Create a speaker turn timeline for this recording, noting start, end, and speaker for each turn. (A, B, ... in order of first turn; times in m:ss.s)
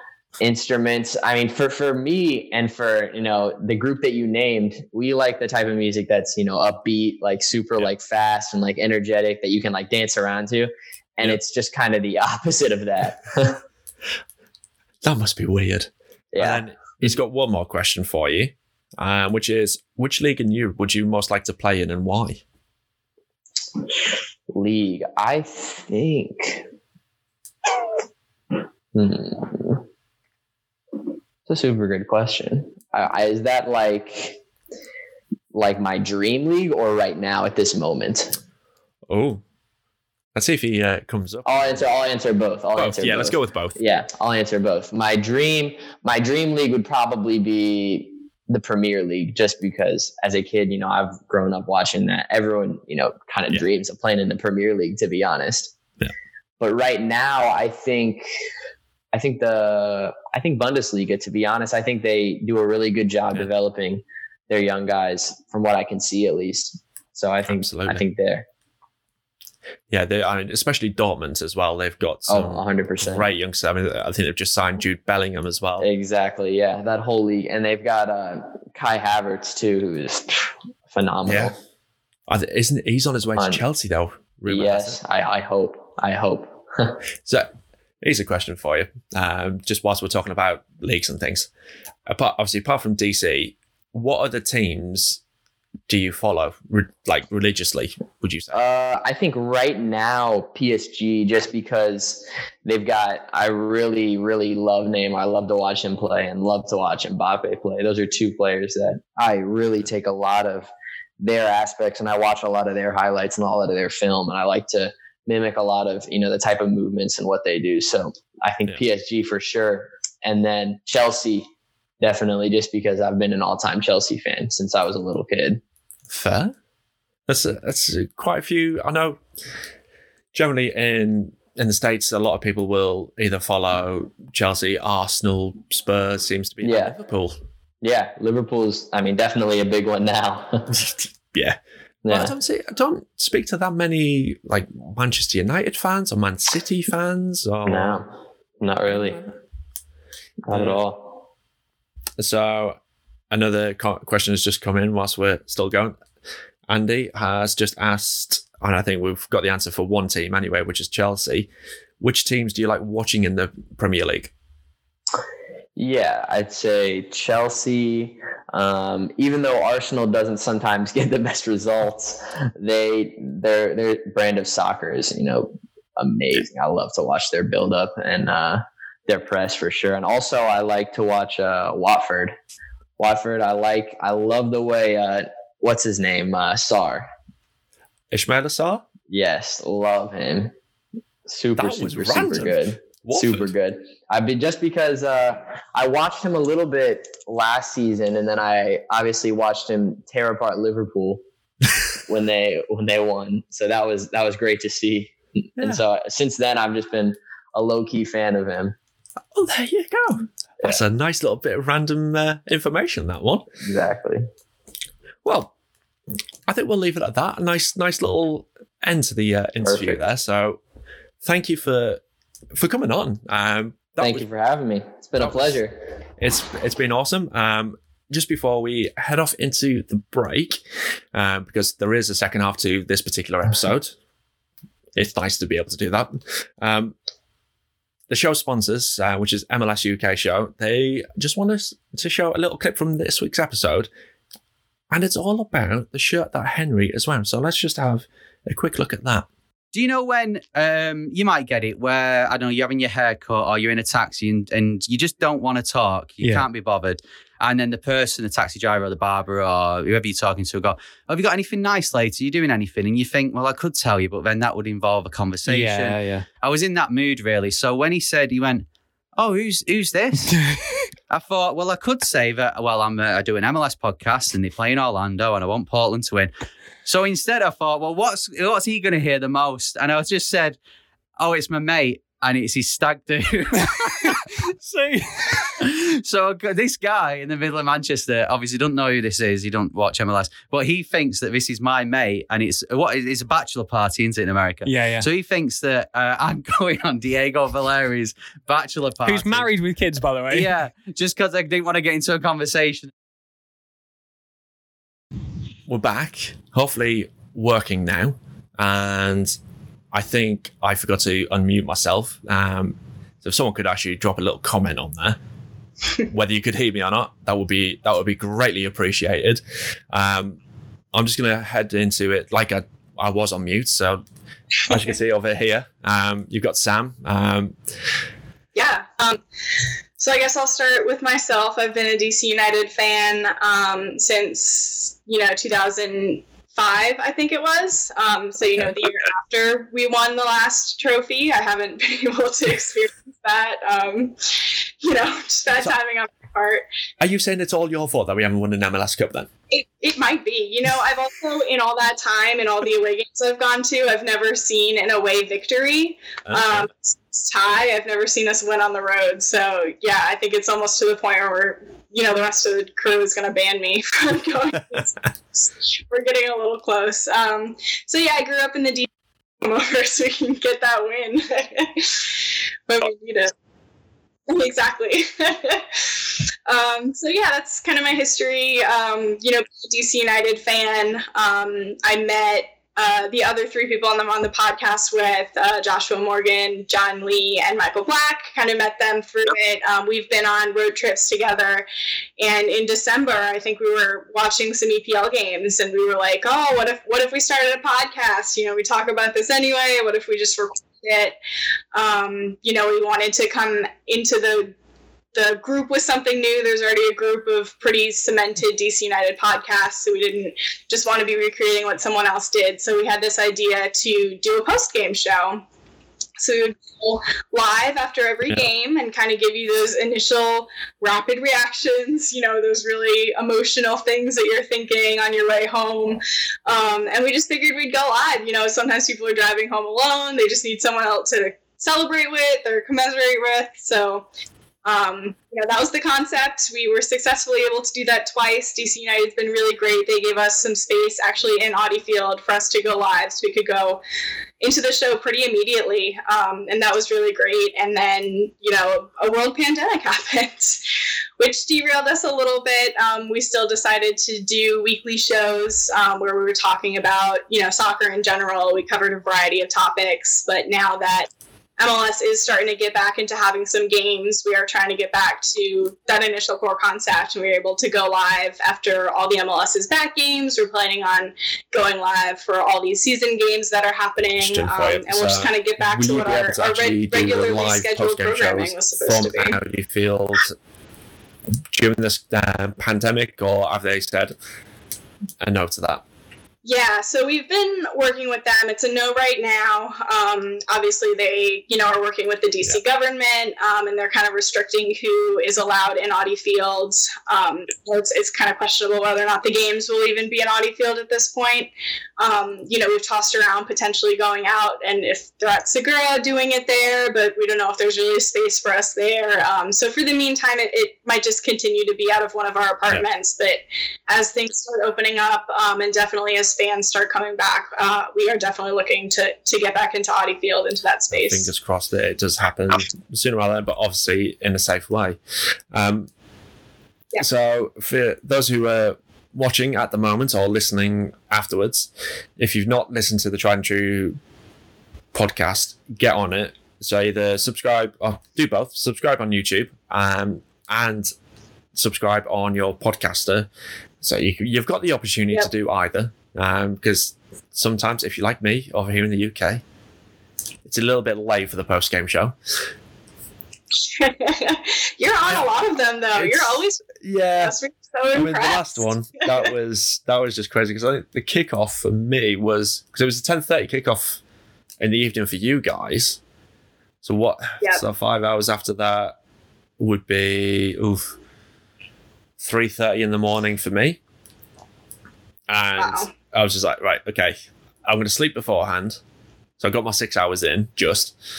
0:00.4-0:13.6 A
0:15.0-0:22.4 B
0:16.3-0:17.1 A
0:24.5-0:26.6 A
0:28.9-0:29.8 A
0:31.5-0:34.4 A
0:35.5-0:38.4 A
0:39.1-0:39.4 B
0:40.3-0:41.8 B
0:41.4-0:55.7 A
0:42.7-0:43.8 B
0:56.6-0:58.3 A
0:59.1-1:08.4 A
1:07.4-1:08.0 B
1:09.9-1:15.9 B
1:12.3-1:13.3 A
1:15.8-1:21.5 A
1:21.2-1:21.5 B
1:22.3-1:25.0 B
1:23.4-1:23.6 A
1:24.5-1:27.0 A
1:27.2-1:31.5 B
1:32.0-1:35.2 B
1:35.9-1:38.6 B
1:38.5-1:50.7 A
1:51.2-2:01.5 A
2:02.0-2:05.6 A
2:06.1-2:06.5 B
2:07.3-2:09.2 B
2:10.3-2:17.4 B
2:16.6-2:16.9 A
2:17.8-2:20.7 A
2:20.7-2:21.6 B
2:22.0-2:22.3 A
2:22.1-2:28.0 B
2:27.6-2:28.1 A
2:28.6-2:29.2 A
2:28.9-2:29.3 B
2:30.4-2:31.2 A
2:30.5-2:30.8 B
2:32.2-2:32.8 B
2:33.3-2:36.0 B
2:36.7-2:41.5 B
2:42.0-2:44.3 B
2:45.8-3:02.4 A
3:03.0-3:07.1 A
3:08.1-3:08.8 B
3:09.1-3:10.5 A
3:11.3-3:21.2 A
3:11.6-3:13.5 B
3:22.0-3:28.8 A
3:29.3-3:33.5 B
3:33.6-3:34.2 A
3:35.2-3:35.5 B
3:36.5-3:40.6 B
3:39.6-3:40.0 A
3:41.2-3:42.0 B
3:42.5-3:44.2 B
3:44.0-3:45.8 A
3:45.2-3:45.6 B
3:46.2-3:50.6 B
3:51.1-3:53.9 B
3:55.0-3:56.9 B
3:58.1-4:03.9 B
4:04.9-4:09.3 B
4:09.7-4:30.4 C
4:25.5-4:26.3 D
4:31.1-4:36.3 C
4:36.8-4:40.6 C
4:41.2-4:44.5 C
4:44.7-4:45.0 D
4:45.5-4:59.5 C
4:54.6-4:55.1 D
4:59.0-5:00.5 D
5:00.3-5:02.9 C
5:05.7-5:09.3 B
5:09.9-5:15.2 B
5:16.1-5:20.4 B
5:20.9-5:24.0 B
5:24.7-5:27.6 B
5:28.5-5:29.2 E
5:30.0-5:46.6 E
5:47.0-5:49.3 B
5:49.5-6:08.9 E
5:56.3-5:56.7 B
6:09.4-6:13.3 E
6:14.3-6:31.7 E
6:32.2-6:41.2 E
6:41.7-6:44.5 E
6:45.1-6:55.4 E
6:56.2-7:14.1 E
7:14.6-7:23.8 E
7:24.4-7:30.6 E
7:31.2-7:59.4 E
7:54.2-8:00.3 B
8:01.5-8:04.1 B
8:05.2-8:05.8 B
8:06.4-8:41.3 E
8:40.9-8:45.0 B
8:45.5-8:45.9 B
8:47.0-8:54.0 B
8:54.9-9:00.9 B
9:01.5-9:03.3 B
9:03.8-9:09.4 B
9:10.4-9:12.2 B
9:13.6-9:19.3 E
9:15.0-9:15.3 B
9:15.9-9:17.3 B
9:17.9-9:24.0 B
9:24.6-9:26.0 B
9:26.8-9:29.0 B
9:29.6-9:31.0 B
9:32.2-9:33.8 B
9:35.3-9:38.8 B
9:35.6-9:35.9 E
9:39.4-9:41.0 B